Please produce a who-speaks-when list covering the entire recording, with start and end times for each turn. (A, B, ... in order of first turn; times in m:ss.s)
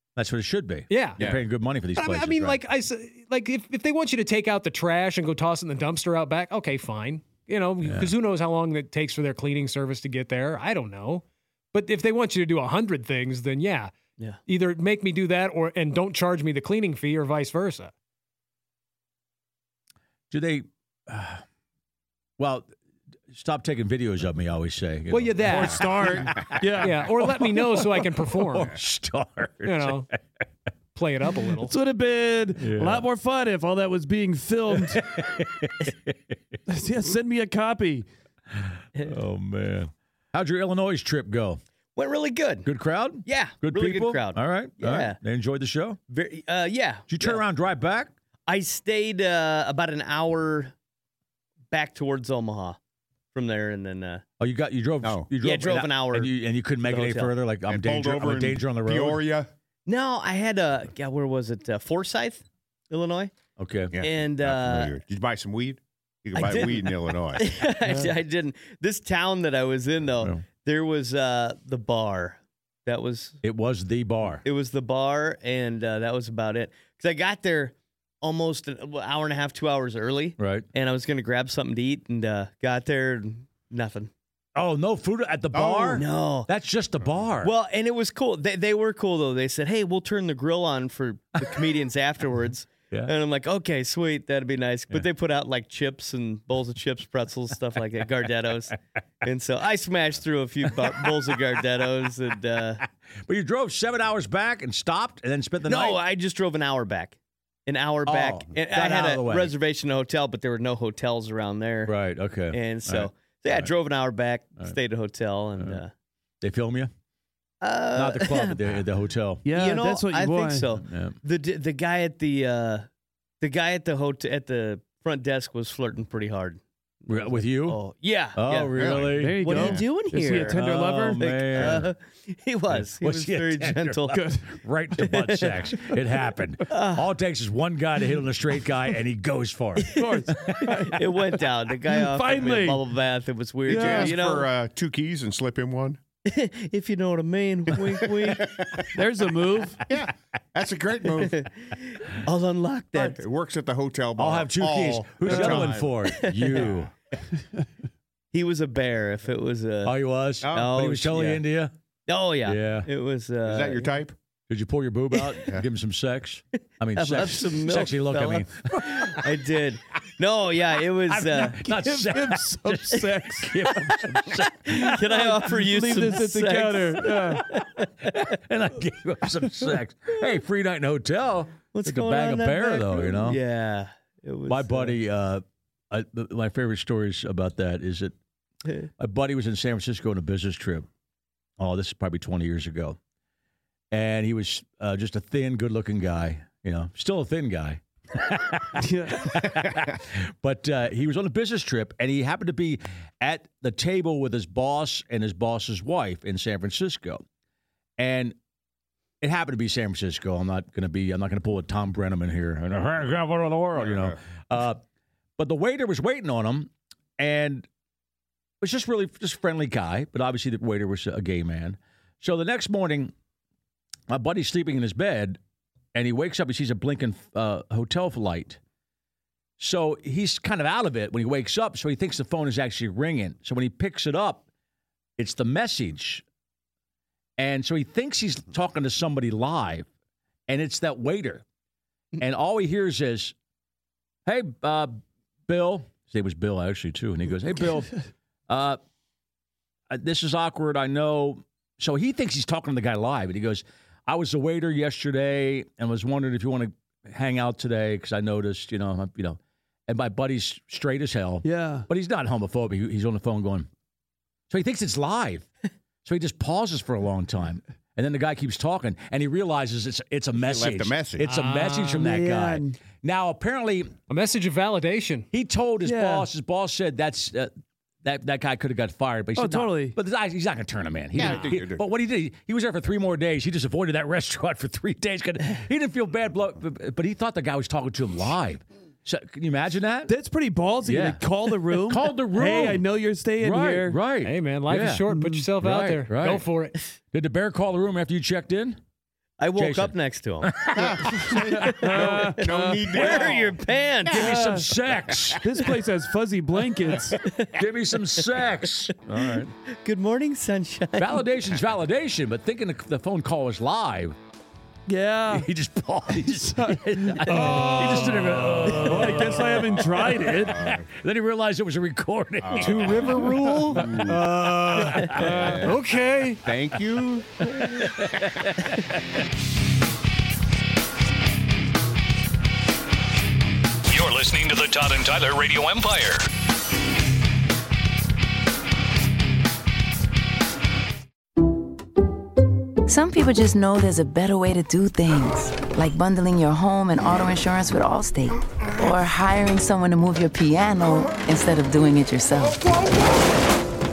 0:00.2-0:02.6 A
0:00.9-0:01.2 B
0:02.0-0:14.0 B
0:07.8-0:08.1 A
0:14.5-0:17.9 B
0:20.3-0:21.4 A
0:22.4-0:22.7 A
0:23.3-0:30.2 A
0:25.1-0:28.7 B
0:26.6-0:27.0 C
0:29.6-0:30.1 B
0:31.0-0:31.7 B
0:31.6-0:35.0 C
0:32.6-0:33.1 A
0:34.8-0:36.3 A
0:36.7-0:38.1 C
0:38.5-0:41.6 A
0:42.0-0:42.7 D
0:42.6-0:46.0 A
0:43.2-0:45.2 D
0:46.1-0:47.4 D
0:47.1-0:48.1 A
0:48.5-0:50.7 D
0:51.7-0:52.8 D
0:53.3-0:54.2 D
0:54.4-0:59.2 A
0:55.4-0:56.3 D
0:56.8-0:57.3 D
0:57.7-0:59.5 E
0:59.9-1:03.3 D
1:03.6-1:04.0 A
1:03.9-1:07.5 E
1:04.0-1:04.9 D
1:06.4-1:13.4 D
1:13.4-1:14.4 A
1:14.4-1:24.1 D
1:20.4-1:20.7 A
1:24.6-1:27.5 A
1:25.5-1:26.0 E
1:26.0-1:26.5 D
1:27.4-1:42.8 D
1:43.2-1:46.0 A
1:45.6-1:52.0 D
1:48.1-1:49.5 A
1:51.9-1:53.7 A
1:52.5-1:55.9 D
1:56.4-1:56.9 A
1:57.6-1:58.8 D
1:57.9-1:59.5 A
1:59.4-2:00.7 C
1:59.5-2:02.9 D
2:00.8-2:01.2 A
2:03.4-2:10.6 D
2:07.1-2:07.8 A
2:08.3-2:11.9 A
2:08.8-2:09.6 E
2:09.2-2:11.8 C
2:11.2-2:14.2 D
2:12.7-2:20.9 A
2:14.1-2:14.5 C
2:15.0-2:15.6 D
2:16.7-2:17.1 D
2:19.8-2:24.5 D
2:20.0-2:21.0 C
2:21.9-2:22.8 C
2:23.7-2:24.2 C
2:23.7-2:26.0 E
2:26.2-2:28.5 D
2:28.4-2:28.8 E
2:29.0-2:29.8 C
2:29.9-2:31.4 E
2:31.2-2:33.2 D
2:33.0-2:36.0 E
2:34.2-2:36.9 A
2:35.3-2:35.6 C
2:36.0-2:36.7 D
2:38.3-2:40.0 D
2:39.8-2:41.7 A
2:40.4-2:40.7 E
2:40.5-2:41.4 D
2:42.1-2:44.0 D
2:42.4-2:42.9 A
2:43.4-2:44.1 E
2:44.5-2:49.3 A
2:45.2-2:45.5 D
2:47.0-2:51.7 D
2:51.1-2:55.6 A
2:51.6-2:53.5 C
2:53.9-2:58.3 D
2:55.0-2:57.4 C
2:57.4-3:03.4 A
3:01.7-3:05.0 D
3:04.5-3:08.2 A
3:09.0-3:10.9 A
3:11.6-3:13.0 A
3:13.9-3:27.2 A
3:18.8-3:19.3 C
3:28.0-3:28.4 A
3:29.2-3:34.8 A
3:33.8-3:34.2 E
3:35.4-3:37.7 A
3:38.6-3:43.1 A
3:44.1-3:45.4 A
3:45.9-3:48.6 A
3:49.6-3:54.4 A
3:55.2-3:56.2 A
3:57.4-3:59.9 A
4:00.5-4:01.4 A
4:02.2-4:03.3 A
4:04.3-4:08.8 A
4:09.9-4:23.7 A
4:21.4-4:21.9 C
4:24.5-4:25.5 A
4:26.0-4:34.0 A
4:30.4-4:31.3 E
4:31.3-4:32.0 B
4:32.0-4:32.8 C
4:34.1-4:35.3 B
4:35.3-4:37.5 A
4:35.8-4:36.3 C
4:38.0-4:50.2 A
4:39.4-4:40.0 C
4:41.2-4:41.8 E
4:50.1-4:54.0 C
4:50.8-4:52.9 A
4:53.4-4:55.0 A
4:54.2-4:56.8 B
4:55.1-4:55.5 C
4:55.6-4:56.5 A
4:57.1-4:58.8 A
4:59.4-5:00.8 D
4:59.6-5:01.3 A
5:00.7-5:03.6 E
5:01.5-5:04.5 D
5:01.7-5:03.1 C
5:03.0-5:03.5 A
5:04.0-5:05.4 A
5:04.1-5:04.4 E
5:04.3-5:04.7 C
5:05.1-5:05.4 E
5:05.4-5:07.2 C
5:07.2-5:07.6 D
5:07.6-5:09.5 A
5:09.2-5:11.2 D
5:11.0-5:14.2 A
5:14.9-5:15.5 C
5:15.3-5:23.2 A
5:16.2-5:17.8 C
5:17.3-5:18.4 B
5:18.9-5:20.6 C
5:20.4-5:20.9 E
5:22.4-5:24.3 E
5:22.6-5:26.4 B
5:23.8-5:25.7 A
5:25.1-5:25.8 E
5:25.2-5:25.6 C
5:26.4-5:27.6 E
5:27.6-5:28.6 A
5:33.9-5:36.3 F
5:42.9-5:52.6 G